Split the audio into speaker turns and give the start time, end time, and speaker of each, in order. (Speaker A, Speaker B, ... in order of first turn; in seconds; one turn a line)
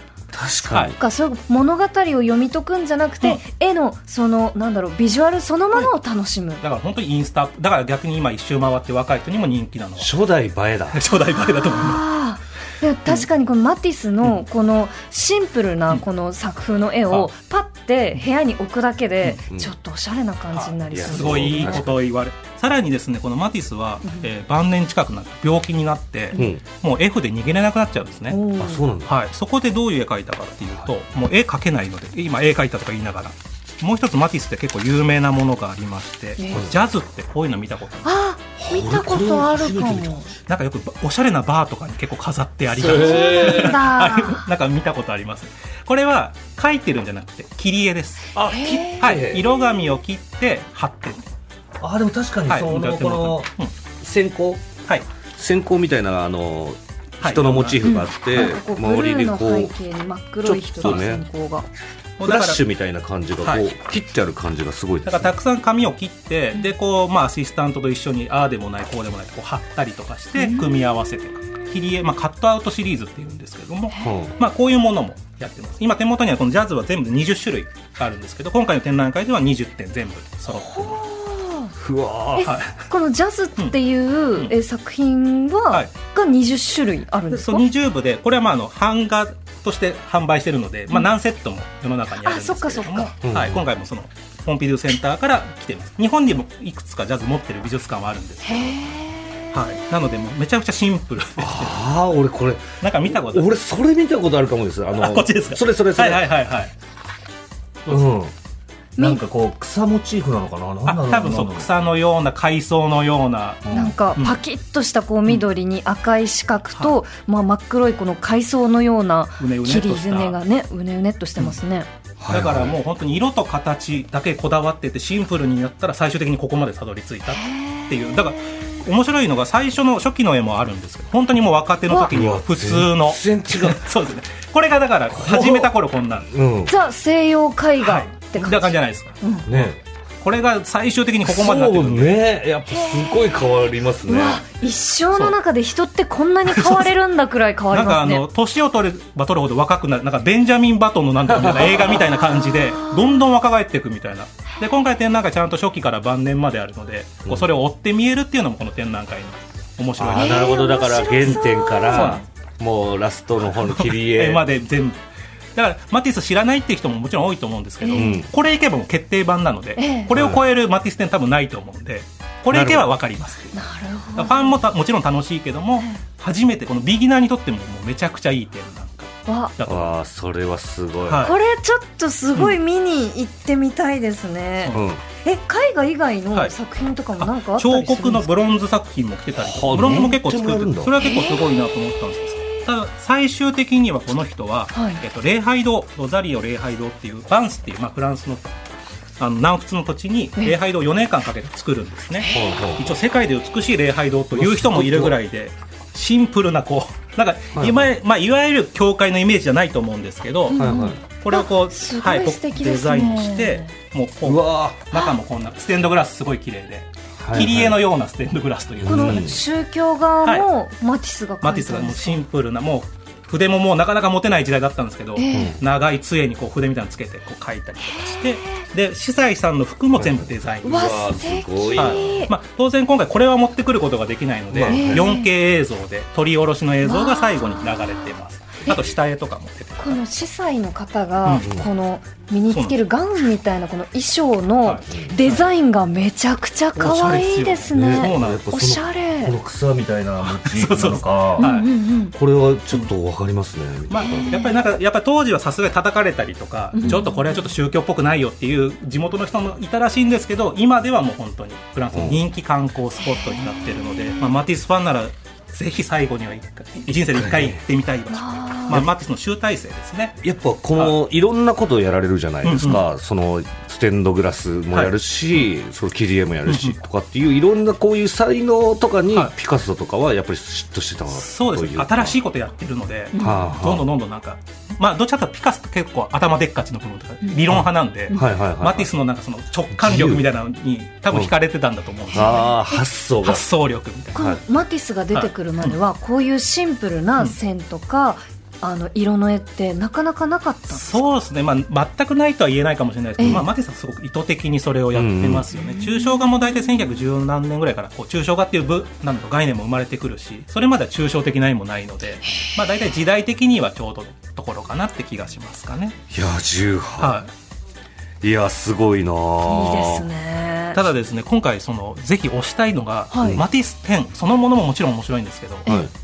Speaker A: 0.3-0.9
Speaker B: 0.7-0.9
Speaker C: 0.7-6.6
Speaker B: 6.6-10.1
Speaker A: 10.0-11.0
Speaker B: 10.9-12.0
Speaker C: 11.3-21.9
Speaker B: 20.5-28.4
Speaker A: 20.9-22.0
Speaker A: 26.3-26.6
Speaker C: 28.3-28.9
Speaker A: 28.6-29.1
Speaker B: 29.1-38.1
Speaker C: 36.4-36.7
Speaker C: 38.0-40.3
Speaker A: 38.6-40.3
Speaker B: 40.5-48.4
Speaker A: 42.7-43.8
Speaker C: 42.8-44.5
Speaker A: 48.4-49.5
Speaker C: 48.4-49.2
Speaker B: 49.0-51.2
Speaker A: 51.8-53.5
Speaker B: 52.5-53.7
Speaker A: 54.0-54.7
Speaker A: 55.4-59.7
Speaker B: 57.2-57.9
Speaker C: 57.8-61.7
Speaker A: 60.4-61.2
Speaker B: 62.2-62.6
Speaker A: 62.2-65.3
Speaker B: 65.0-81.0
Speaker C: 70.3-70.8
Speaker A: 74.0-74.3
Speaker C: 80.5-81.7
Speaker A: 81.8-82.5
Speaker C: 82.3-87.7
Speaker B: 82.4-82.7
Speaker B: 87.3-98.8
Speaker C: 92.2-93.1
Speaker A: 93.2-93.6
Speaker C: 98.4-99.6
Speaker B: 99.5-101.9
Speaker A: 101.4-106.3
Speaker B: 102.8-103.5
Speaker B: 105.0-106.7
Speaker A: 107.9-108.3
Speaker C: 109.0-109.2
Speaker A: 109.0-111.7
Speaker B: 110.8-114.4
Speaker A: 113.7-113.9
Speaker C: 113.7-121.9
Speaker B: 119.4-120.4
Speaker A: 122.2-122.8
Speaker B: 122.3-136.3
Speaker C: 127.3-128.8
Speaker A: 132.1-133.8
Speaker A: 135.1-135.7
Speaker A: 136.3-136.7
Speaker C: 136.7-139.5
Speaker B: 137.8-142.2
Speaker A: 139.5-139.8
Speaker A: 141.2-144.4
Speaker C: 142.7-143.5
Speaker C: 144.1-148.2
Speaker B: 146.5-146.9
Speaker B: 147.7-160.6
Speaker A: 151.3-152.1
Speaker C: 151.9-153.2
Speaker A: 160.0-164.4
Speaker C: 160.1-162.2
Speaker B: 161.9-162.2
Speaker B: 163.6-165.0
Speaker B: 165.6-173.6
Speaker C: 167.8-168.2
Speaker A: 167.9-168.3
Speaker C: 169.8-170.1
Speaker A: 170.1-170.4
Speaker A: 172.5-172.9
Speaker C: 173.5-174.6
Speaker B: 174.2-179.9
Speaker C: 179.3-179.5
Speaker A: 179.7-181.3
Speaker B: 181.1-181.3
Speaker C: 181.2-188.4
Speaker A: 184.7-185.0
Speaker B: 187.2-198.5
Speaker A: 189.4-191.0
Speaker C: 189.7-190.2
Speaker C: 191.0-191.7
Speaker C: 194.7-195.0
Speaker B: 199.2-219.2
Speaker C: 202.2-202.6
Speaker A: 202.3-202.9
Speaker A: 204.3-205.2
Speaker A: 207.6-207.9
Speaker C: 210.5-213.7
Speaker A: 210.6-211.0
Speaker A: 214.2-214.8
Speaker A: 217.2-217.8
Speaker A: 218.8-219.4
Speaker C: 218.8-222.2
Speaker B: 221.4-231.0
Speaker C: 225.2-225.6
Speaker A: 225.3-225.6
Speaker C: 227.8-228.7
Speaker A: 229.9-232.2
Speaker C: 230.6-232.3
Speaker B: 231.8-240.0
Speaker A: 234.5-235.1
Speaker C: 234.7-235.3
Speaker C: 236.8-238.1
Speaker C: 239.8-249.3
Speaker B: 242.5-242.8
Speaker B: 244.6-245.5
Speaker B: 246.8-248.5
Speaker A: 247.7-251.5
Speaker B: 250.2-251.7
Speaker C: 251.4-252.1
Speaker A: 252.1-254.4
Speaker B: 253.9-270.2
Speaker C: 254.0-254.6
Speaker C: 256.7-257.4
Speaker A: 261.9-262.2
Speaker C: 263.1-264.2
Speaker A: 267.1-267.6
Speaker C: 268.1-268.8
Speaker A: 270.2-282.2
Speaker B: 272.4-272.8
Speaker B: 276.5-276.8
Speaker B: 281.1-292.5
Speaker C: 283.1-283.4
Speaker A: 283.2-283.9
Speaker A: 287.5-288.9
Speaker A: 289.7-290.2
Speaker C: 292.1-292.8
Speaker A: 292.1-293.4
Speaker B: 293.2-294.3
Speaker C: 294.1-301.1
Speaker B: 295.1-295.8
Speaker B: 300.7-316.0
Speaker C: 303.2-303.4
Speaker A: 304.9-305.5
Speaker C: 305.5-306.5
Speaker C: 312.3-312.6
Speaker A: 316.1-317.2
Speaker B: 317.0-317.3
Speaker A: 318.2-320.1
Speaker C: 319.4-320.8
Speaker B: 320.7-325.7
Speaker C: 323.1-323.4